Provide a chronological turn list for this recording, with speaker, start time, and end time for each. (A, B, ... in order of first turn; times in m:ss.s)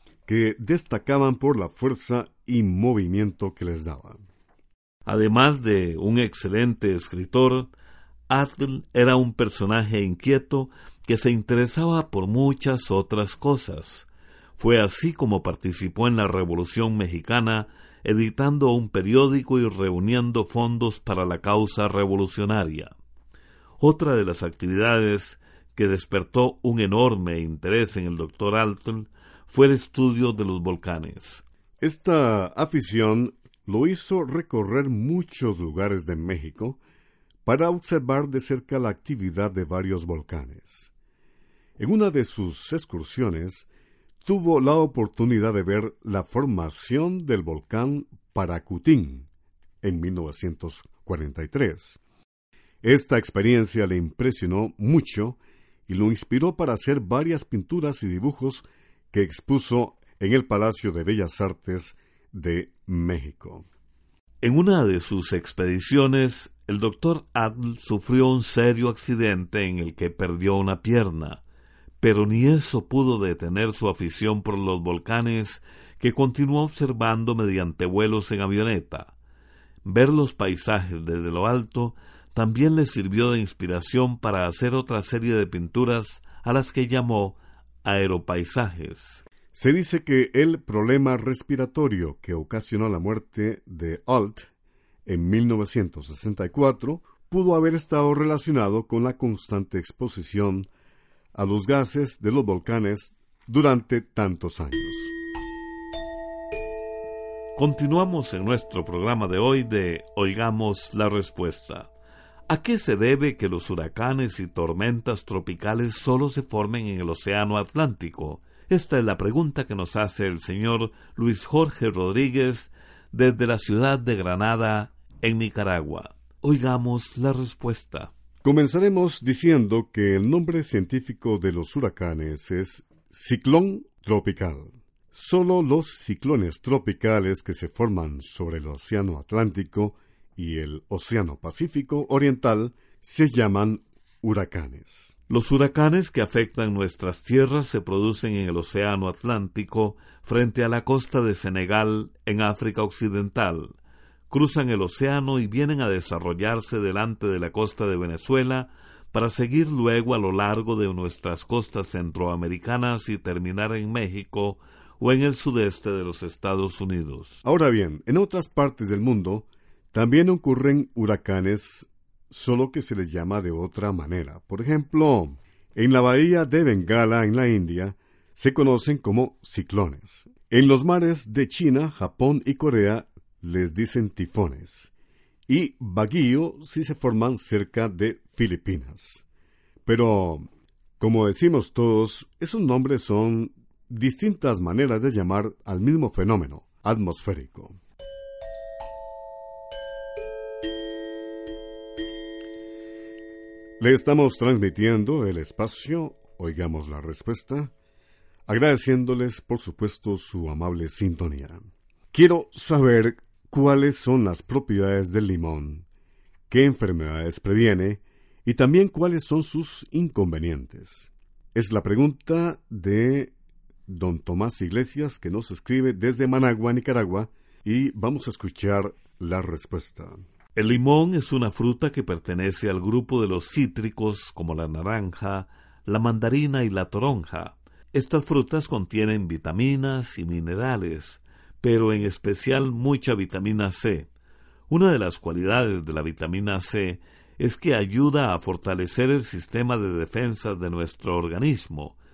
0:00.2-0:04.2 A
0:05.0-0:07.7 B
0:08.3-0:22.9 B
0:23.8-0:31.4 B
0:31.8-0:36.8 A
0:37.4-0:40.9 A
0:41.8-0:43.6 A
0:44.2-0:49.3 A
0:49.8-0:52.0 A
0:52.8-1:03.6 A
1:04.4-1:11.4 B
1:12.0-1:19.1 B
1:19.8-1:29.2 B
1:29.5-1:34.5 A
1:35.0-1:40.7 A
1:41.3-1:45.1 A
1:47.5-1:51.9 B
1:52.5-2:08.1 B
2:08.4-2:25.1 A
2:25.3-2:33.7 B
2:34.3-2:47.4 B
2:47.4-3:04.9 A
3:05.5-3:09.2 A
3:09.8-3:10.5 A
3:11.0-3:17.8 A
3:23.8-3:27.7 A
3:28.5-3:31.6 A
3:32.1-3:35.8 A
3:36.5-3:43.3 A
3:43.9-3:50.2 A
3:50.5-4:04.1 B
4:04.7-4:12.0 B